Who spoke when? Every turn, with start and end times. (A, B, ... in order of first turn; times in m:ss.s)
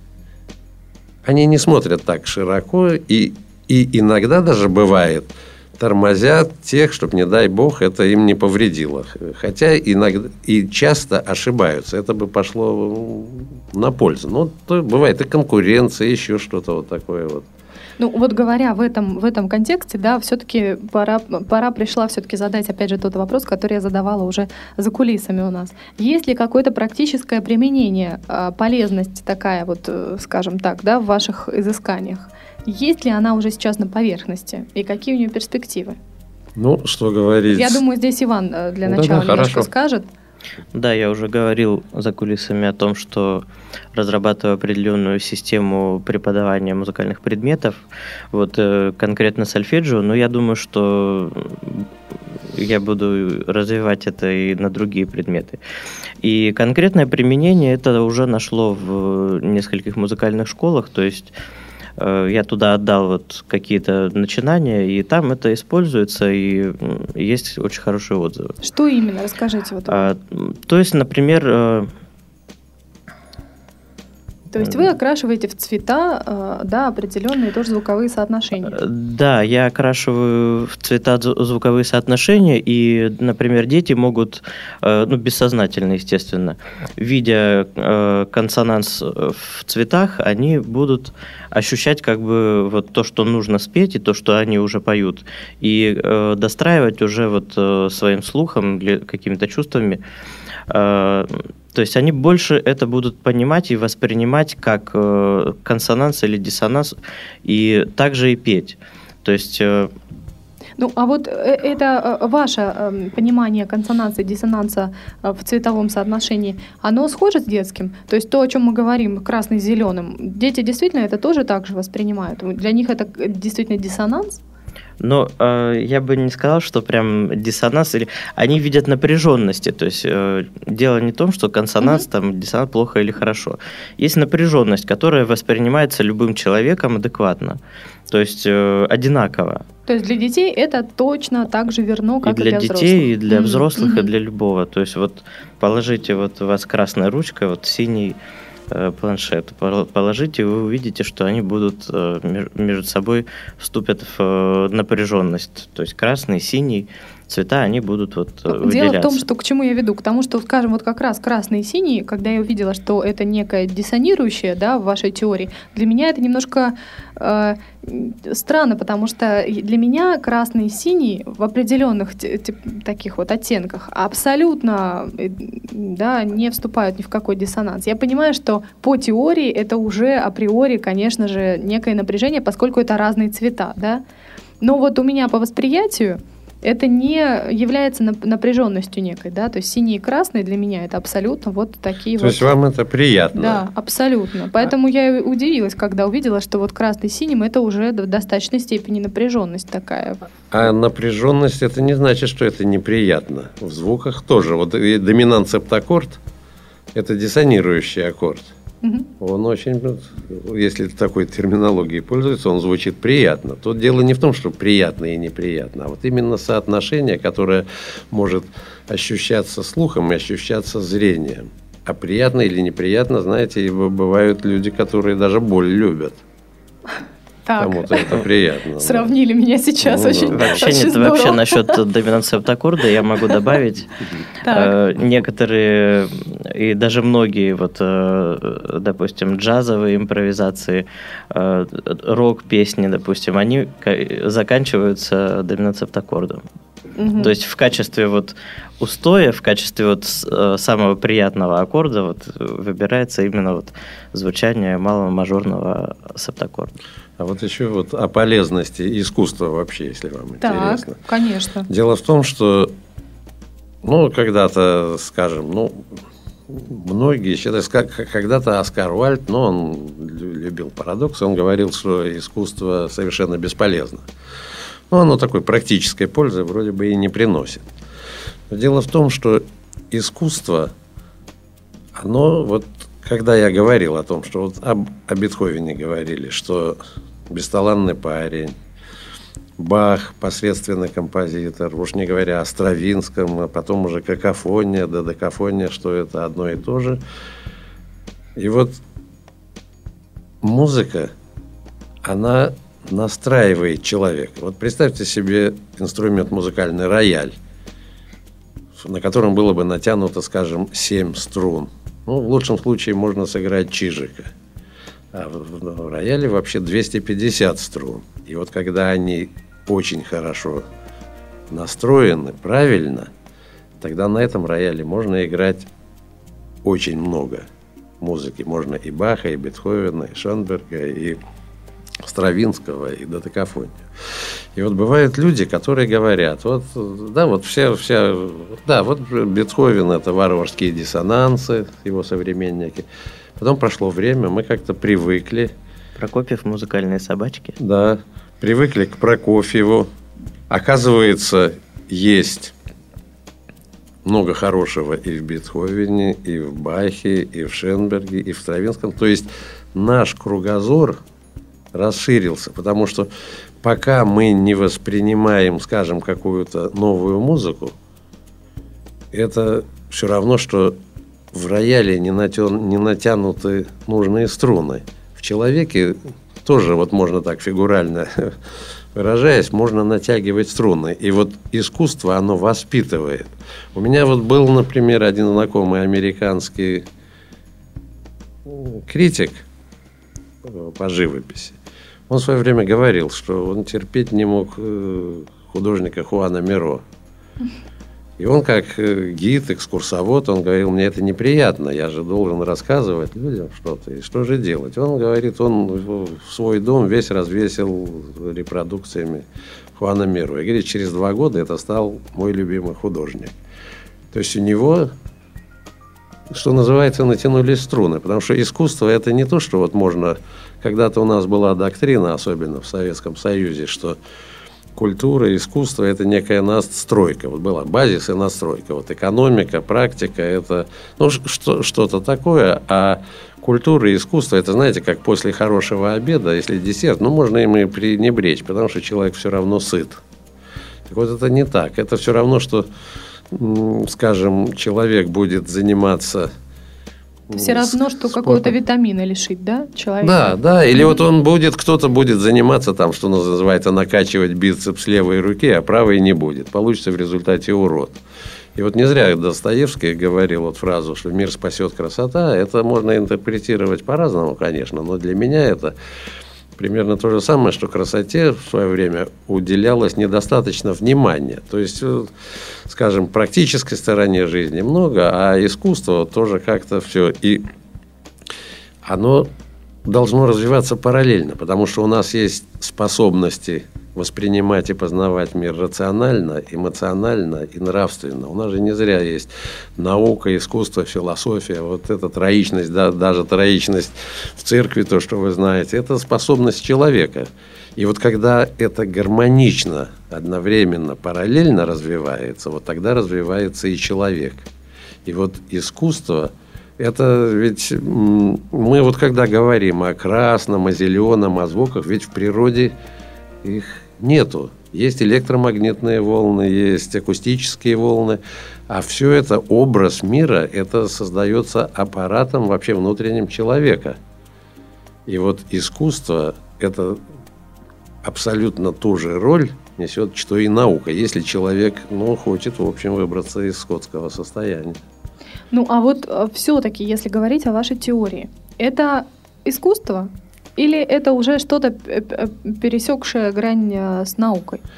0:01.2-0:17.5 A
0:18.0-0:36.0 B
0:36.6-0:37.8 A
0:37.5-0:40.1 B
0:38.9-0:39.7 A
0:40.7-0:51.9 C
0:52.5-0:55.6 C
0:56.2-1:01.3 C
1:02.0-1:08.5 C
1:08.6-1:10.1 B
1:09.9-1:11.9 C
1:14.5-1:18.8 B
1:18.7-1:40.0 C
1:40.7-1:49.9 C
1:50.8-2:04.4 B
2:05.0-2:17.6 C
2:18.1-2:19.6 C
2:19.9-2:24.1 B
2:22.2-2:28.2 C
2:28.7-2:39.2 C
2:38.5-3:04.0 B
3:04.6-3:12.5 B
3:12.2-3:13.6 A
3:13.4-3:20.3 B
3:20.5-3:26.2 A
3:26.9-3:28.5 A
3:28.8-3:29.1 B
3:29.2-3:46.2 A
3:47.5-3:48.2 B
3:47.6-3:49.1 A
3:48.8-3:51.8 B
3:49.8-3:50.6 A
3:50.3-3:53.9 C
3:54.4-3:54.7 B
3:54.5-4:06.4 C
4:07.0-4:07.3 B
4:07.2-4:16.7 C
4:17.2-4:21.0 A
4:20.4-4:21.7 B
4:21.7-4:22.7 A
4:23.8-4:25.8 A
4:26.5-4:34.1 A
4:34.9-4:37.7 A
4:38.5-4:40.7 A
4:42.0-4:46.8 A
4:47.3-4:48.6 A
4:49.6-4:57.0 A
4:58.4-4:58.8 A
5:00.4-5:01.1 A
5:02.0-5:07.4 A
5:08.8-5:14.3 A
5:15.1-5:20.6 A
5:21.5-5:23.1 A
5:23.8-5:25.7 A
5:26.6-5:27.5 A
5:28.0-5:31.2 A
5:32.0-5:33.8 A
5:34.6-5:42.9 A
5:43.4-5:45.5 A
5:46.0-5:47.6 C
5:47.6-5:49.9 A
5:50.5-5:52.5 A
5:54.0-6:01.0 A
6:01.7-6:03.1 A
6:03.6-6:07.8 A
6:09.1-6:10.8 A
6:11.3-6:18.4 A
6:18.9-6:26.8 A
6:28.4-6:29.4 A
6:30.4-6:31.6 A
6:32.1-6:36.8 A
6:38.2-6:49.2 A
6:49.8-6:53.4 A
6:54.1-6:54.9 A
6:56.3-7:04.0 A
7:04.8-7:20.0 A
7:20.9-7:22.7 A
7:23.3-7:26.3 A
7:27.3-7:28.5 A
7:27.3-7:31.0 B
7:30.0-7:38.0 A
7:38.6-7:45.8 A
7:46.6-7:52.1 A
7:52.7-7:57.4 A
7:58.8-7:59.3 A
7:59.8-8:24.4 A
8:25.0-8:32.7 A
8:33.4-8:44.0 A
8:45.1-8:47.0 A
8:48.0-8:54.8 A
8:55.5-9:04.6 B